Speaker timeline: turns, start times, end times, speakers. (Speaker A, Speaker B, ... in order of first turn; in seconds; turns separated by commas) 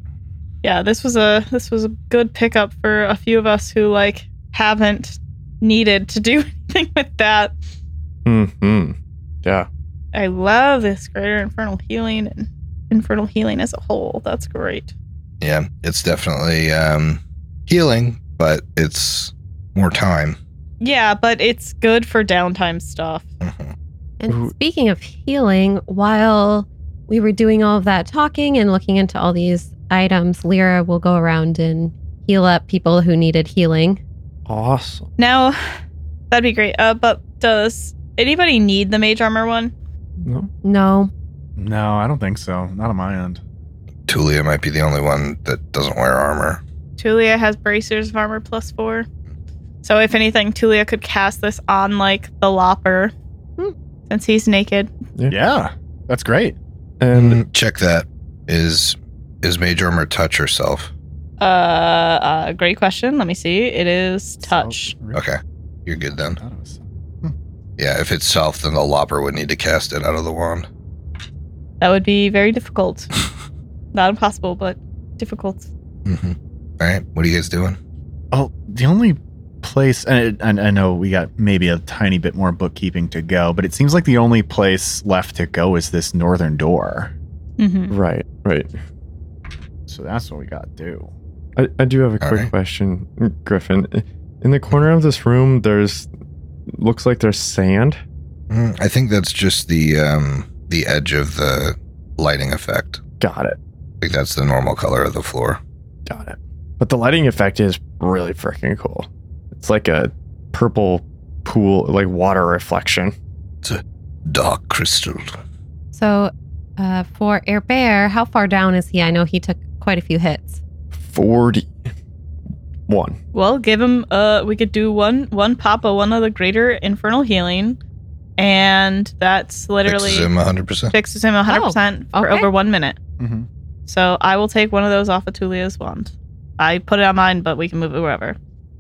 Speaker A: 0.6-7.5, Speaker B: 8.2-9.7, Speaker A: 10.1-14.9, Speaker C: 15.4-20.4, Speaker A: 20.8-23.2, Speaker C: 23.4-23.7, Speaker D: 24.2-34.0, Speaker B: 34.5-35.1, Speaker A: 35.2-35.6, Speaker A: 36.3-39.7, Speaker B: 40.2-40.5, Speaker D: 40.6-41.1, Speaker E: 41.6-43.4, Speaker C: 44.1-46.6, Speaker A: 47.0-49.1, Speaker A: 49.8-53.1, Speaker A: 54.1-54.9, Speaker E: 55.3-56.6, Speaker B: 57.0-57.4, Speaker C: 57.1-60.9, Speaker A: 61.4-64.9, Speaker E: 64.4-65.2, Speaker C: 65.1-66.4, Speaker E: 66.4-67.3, Speaker C: 67.8-70.7, Speaker A: 71.8-73.1, Speaker A: 73.9-75.7, Speaker C: 76.0-77.8, Speaker E: 78.3-87.1, Speaker A: 87.6-87.9, Speaker B: 87.9-88.7, Speaker E: 89.9-91.1, Speaker B: 91.5-96.1, Speaker C: 92.2-92.5, Speaker B: 96.7-98.0, Speaker C: 98.5-103.0, Speaker B: 103.2-103.6, Speaker C: 104.0-105.6, Speaker B: 106.0-113.1, Speaker C: 113.6-115.3, Speaker D: 115.9-120.6, Speaker B: 120.9-121.7, Speaker B: 122.9-123.2, Speaker A: 123.3-127.8, Speaker A: 128.4-130.3, Speaker C: 129.8-130.9, Speaker A: 130.9-133.0, Speaker D: 131.5-132.5, Speaker E: 133.2-133.5, Speaker A: 133.8-138.4